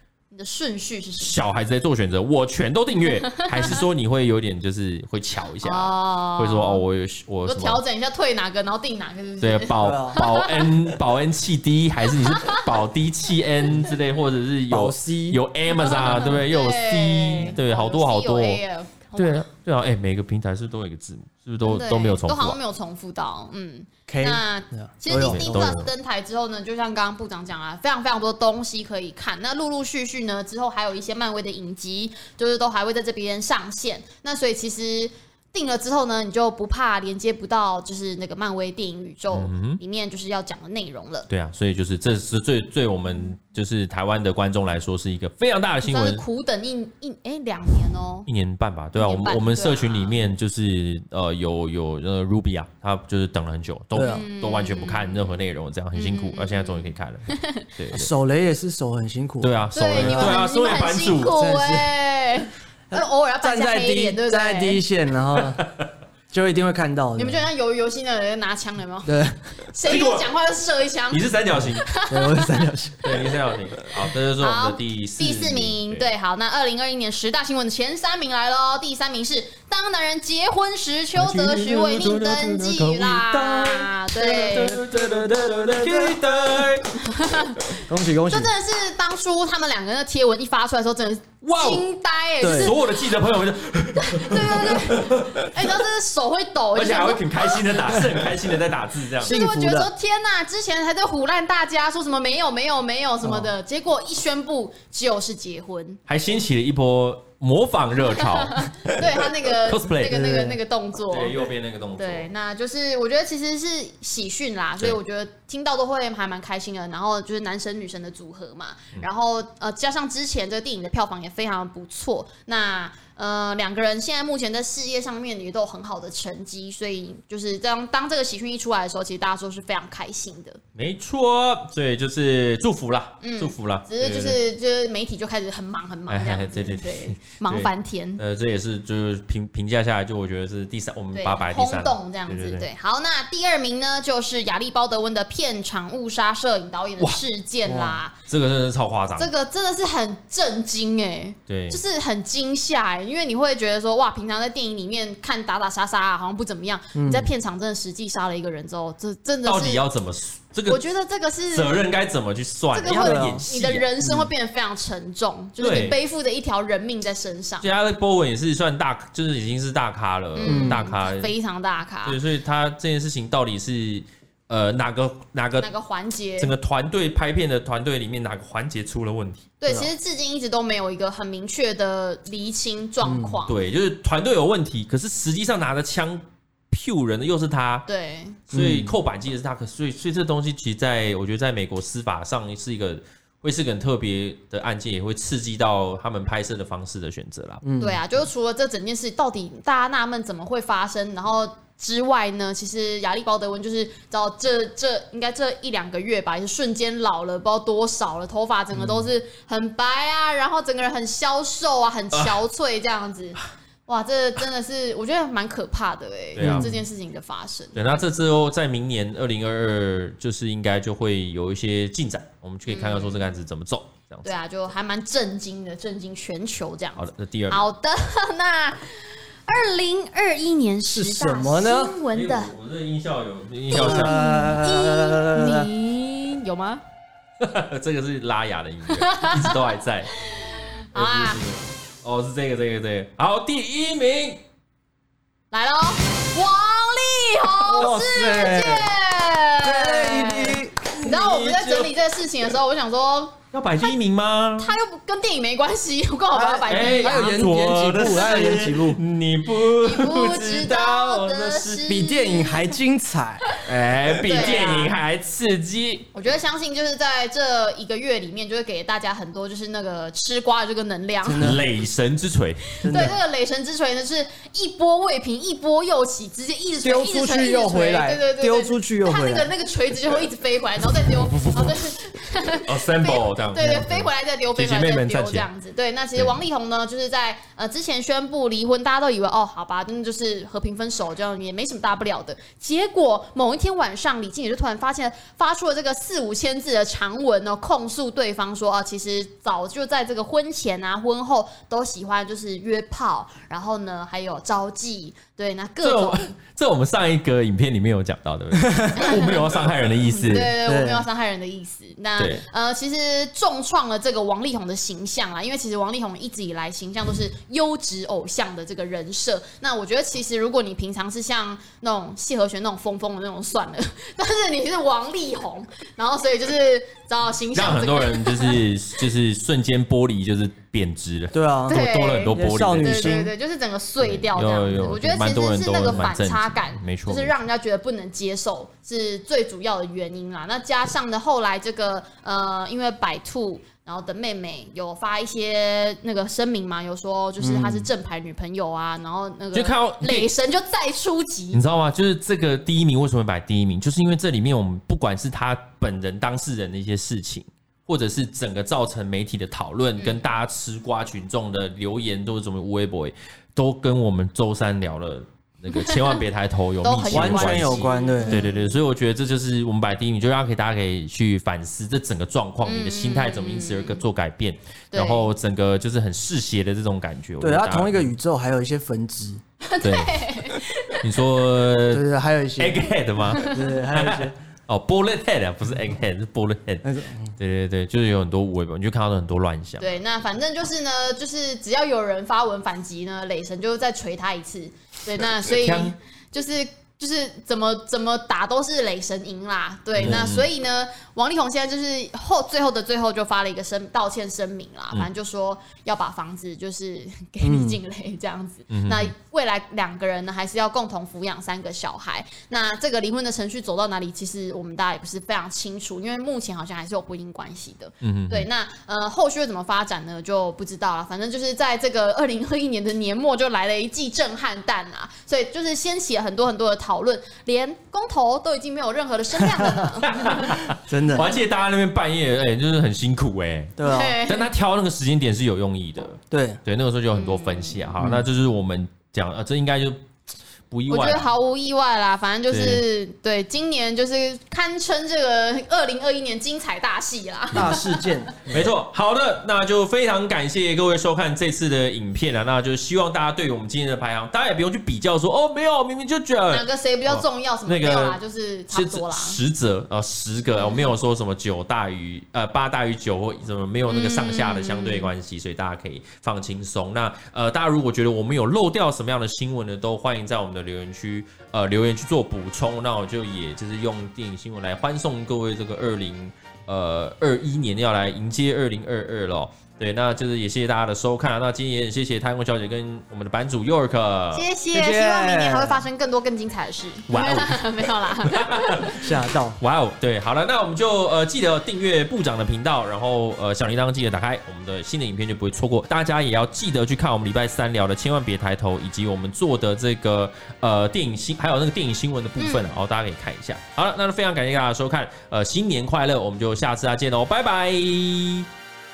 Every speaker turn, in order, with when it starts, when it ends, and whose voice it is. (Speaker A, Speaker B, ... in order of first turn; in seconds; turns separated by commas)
Speaker A: 0.3-1.4, Speaker B: 1.2-7.8, Speaker A: 3.1-3.8, Speaker A: 5.6-6.8, Speaker A: 7.4-10.7, Speaker B: 9.4-18.6, Speaker C: 9.8-10.2, Speaker A: 12.1-12.7, Speaker C: 14.7-16.3, Speaker A: 15.7-19.5, Speaker B: 19.1-22.6, Speaker A: 21.6-41.3, Speaker C: 24.1-25.8, Speaker B: 25.1-25.9, Speaker B: 39.3-39.8, Speaker B: 41.3-46.2, Speaker A: 45.8-48.3, Speaker B: 48.2-57.2, Speaker A: 49.0-50.2, Speaker C: 53.9-54.2, Speaker A: 54.0-55.4, Speaker A: 55.9-57.6, Speaker B: 57.7-58.1, Speaker C: 57.9-60.5, Speaker B: 59.4-61.4, Speaker A: 59.7-64.8, Speaker C: 61.2-61.9, Speaker C: 62.9-65.6, Speaker B: 65.6-65.9, Speaker C: 66.3-67.5, Speaker A: 67.2-69.2, Speaker C: 69.0-69.5, Speaker A: 69.7-72.6, Speaker B: 69.8-70.3, Speaker B: 71.1-71.9, Speaker C: 71.6-73.1, Speaker B: 73.0-76.1, Speaker A: 74.4-84.8, Speaker B: 81.3-83.5, Speaker B: 84.2-86.9, Speaker C: 84.5-86.2, Speaker A: 87.0-92.9, Speaker C: 87.8-88.5, Speaker B: 91.4-91.8, Speaker C: 92.4-92.7, Speaker B: 92.5-95.5, Speaker A: 94.0-97.9, Speaker B: 96.7-99.4, Speaker A: 99.2-106.0, Speaker C: 99.2-99.9, Speaker C: 103.2-103.5, Speaker B: 106.1-110.2, Speaker A: 108.2-111.5, Speaker C: 110.1-110.6, Speaker B: 111.1-112.3, Speaker A: 112.0-130.6, Speaker B: 130.7-134.4, Speaker A: 133.2-138.2, Speaker B: 136.1-142.7, Speaker A: 141.1-148.2, Speaker C: 147.6-148.0, Speaker B: 148.3-149.3, Speaker A: 149.2-159.8, Speaker B: 151.5-151.8, Speaker C: 156.9-157.3, Speaker B: 159.4-160.8, Speaker A: 160.7-161.8, Speaker B: 161.5-163.8, Speaker A: 162.7-167.7, Speaker C: 162.9-163.4, Speaker C: 164.0-164.3, Speaker B: 165.6-166.0, Speaker B: 167.6-171.3, Speaker A: 170.3-172.2, Speaker C: 170.4-170.8, Speaker B: 172.0-175.7, Speaker A: 175.6-176.5, Speaker B: 176.4-179.5, Speaker A: 179.6-183.6, Speaker C: 183.0-183.4, Speaker B: 183.5-187.8, Speaker A: 187.9-188.4, Speaker B: 188.5-197.6, Speaker C: 188.5-188.9, Speaker C: 197.6-198.0, Speaker A: 197.8-218.0, Speaker C: 208.8-209.1, Speaker B: 212.1-212.4, Speaker B: 216.3-216.7, Speaker C: 216.4-216.8, Speaker B: 217.7-224.3, Speaker A: 222.7-223.3, Speaker A: 224.2-232.5, Speaker B: 226.9-227.6, Speaker C: 230.9-232.0, Speaker B: 232.1-234.2, Speaker C: 233.7-235.7, Speaker A: 233.7-236.8, Speaker B: 237.4-240.1, Speaker A: 238.9-239.6, Speaker A: 240.2-241.4, Speaker B: 240.9-244.4, Speaker A: 245.5-253.9, Speaker C: 247.7-248.9, Speaker B: 247.8-248.0, Speaker C: 249.6-250.8, Speaker B: 250.8-251.9, Speaker B: 253.5-254.7, Speaker A: 254.6-257.4, Speaker C: 256.3-259.0, Speaker B: 256.7-261.9, Speaker A: 259.6-262.8, Speaker C: 261.9-263.5, Speaker B: 263.6-266.1, Speaker A: 264.2-265.0, Speaker A: 266.1-271.6, Speaker C: 271.2-271.6, Speaker B: 271.4-273.1, Speaker A: 272.8-306.3, Speaker C: 272.8-273.2, Speaker C: 276.8-279.5, Speaker B: 281.3-281.8, Speaker B: 282.6-285.5, Speaker B: 305.8-310.5, Speaker A: 308.9-309.5, Speaker A: 310.1-328.6, Speaker C: 310.6-311.1, Speaker B: 312.2-312.4, Speaker B: 327.5-333.2, Speaker C: 331.3-333.3, Speaker A: 331.7-351.6, Speaker B: 334.0-337.3, Speaker C: 347.4-347.9, Speaker B: 349.5-350.3, Speaker B: 351.5-378.1, Speaker A: 365.7-366.2, Speaker A: 366.8-368.7, Speaker C: 367.1-368.4, Speaker A: 372.6-374.0, Speaker A: 374.9-375.3, Speaker C: 377.4-379.4, Speaker A: 379.6-381.2, Speaker B: 379.8-380.3, Speaker B: 381.0-382.0, Speaker C: 381.9-382.9, Speaker B: 382.6-390.0, Speaker A: 383.3-383.7, Speaker C: 383.4-384.4, Speaker C: 386.8-387.3, Speaker A: 389.8-430.6, Speaker B: 395.4-395.9, Speaker B: 399.9-400.5, Speaker C: 407.4-407.8, Speaker B: 408.7-409.1, Speaker B: 418.0-418.5, Speaker C: 429.4-429.8, Speaker B: 430.0-440.0, Speaker C: 430.7-431.3, Speaker C: 433.8-434.2, Speaker A: 433.8-434.5, Speaker C: 436.3-436.6, Speaker A: 437.1-437.9, Speaker C: 438.0-438.2, Speaker B: 440.7-441.2, Speaker A: 440.9-448.3, Speaker B: 442.5-442.8, Speaker C: 447.5-448.6, Speaker B: 448.5-458.2, Speaker A: 456.5-459.4, Speaker B: 458.7-484.5, Speaker A: 460.4-461.0, Speaker A: 463.9-465.1, Speaker A: 484.3-489.0, Speaker C: 484.7-485.9, Speaker B: 487.1-487.7, Speaker B: 488.2-489.0, Speaker C: 488.9-489.6, Speaker B: 489.6-508.5, Speaker A: 502.4-502.7